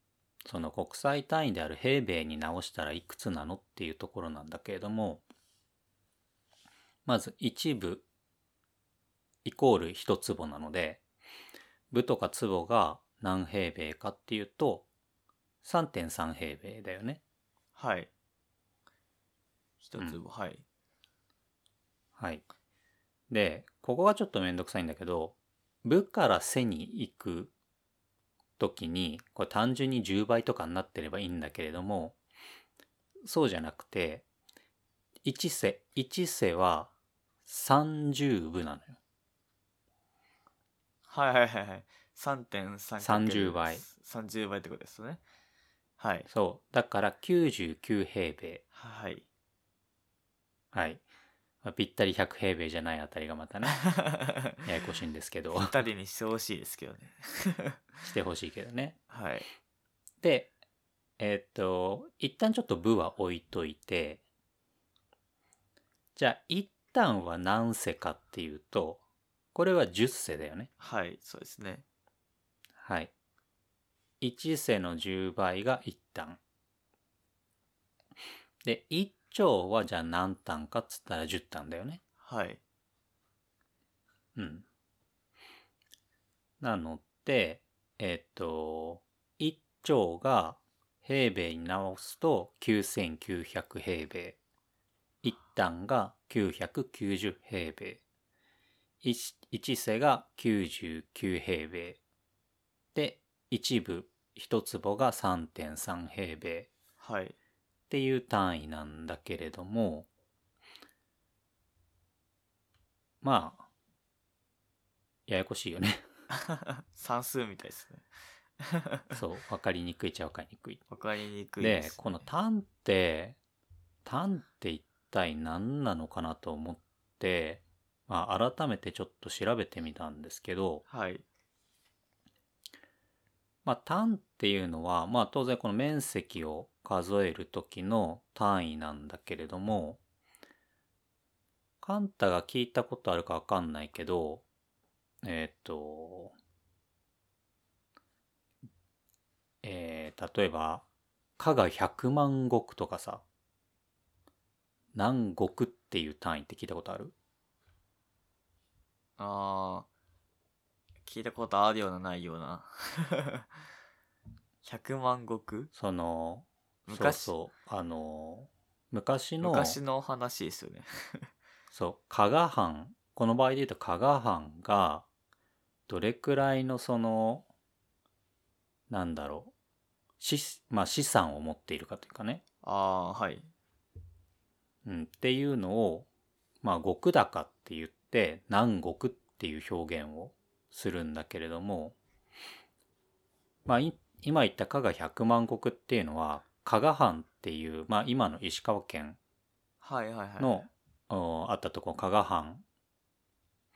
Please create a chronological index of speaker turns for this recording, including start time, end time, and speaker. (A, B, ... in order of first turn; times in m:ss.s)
0:00.4-0:05.2 A
0:07.1-0:08.0 A
0:09.4-0:11.0 A
0:11.9-0:14.9 A
0:15.6-0:17.2 A
0:17.8-0:18.1 B
0:19.8-0:20.6 B
0:22.2-0:22.4 A
0:23.3-0:27.5 A
0:28.6-0:32.2 A
0:33.2-0:34.2 A
0:35.2-0:36.9 A
0:37.4-0:39.0 A
0:41.1-0:45.2 B
0:43.0-0:43.9 A
0:46.0-0:46.3 B
0:46.3-0:48.6 A
0:48.7-0:49.2 B
0:50.7-0:51.0 A
0:51.6-0:53.8 A
0:53.8-0:54.6 B
0:54.6-0:55.8 A
0:55.6-0:57.8 B
0:58.0-0:59.0 A
0:59.1-0:59.5 B
1:00.2-1:00.5 A
1:01.2-1:04.2 A
1:06.2-1:09.0 A
1:09.6-1:10.7 A
1:10.8-1:11.8 B
1:12.8-1:13.1 A
1:14.2-1:16.4 A
1:18.6-1:22.0 A
1:22.2-1:22.6 B
1:24.3-1:24.7 A
1:26.6-1:34.4 A
1:35.2-1:38.0 A
1:39.0-1:42.0 A
1:42.9-1:46.7 A
1:47.0-1:47.3 B
1:47.9-1:50.1 A
1:53.2-1:53.7 A
1:55.3-1:56.1 A
1:56.3-1:58.0 B
1:58.6-1:59.2 B
1:59.1-2:00.8 A
2:00.9-2:02.3 B
2:01.6-2:03.4 A
2:04.0-2:10.8 A
2:10.9-2:11.2 B
2:13.6-2:20.0 A
2:21.8-2:24.4 A
2:25.2-2:26.3 A
2:29.6-2:30.8 A
2:31.4-2:33.2 A
2:34.9-2:37.1 A
2:39.2-2:39.9 B
2:41.0-2:43.5 B
2:44.6-2:45.7 B
2:45.7-2:49.8 A
2:46.8-2:47.3 B
2:49.4-2:51.3 B
2:51.7-2:55.1 A
2:55.9-2:57.4 A
2:58.9-2:59.5 A
3:00.2-3:02.4 A
3:02.6-3:03.5 B
3:04.8-3:06.1 A
3:06.6-3:12.0 A
3:13.7-3:19.2 A
3:19.8-3:20.6 B
3:20.4-3:22.6 A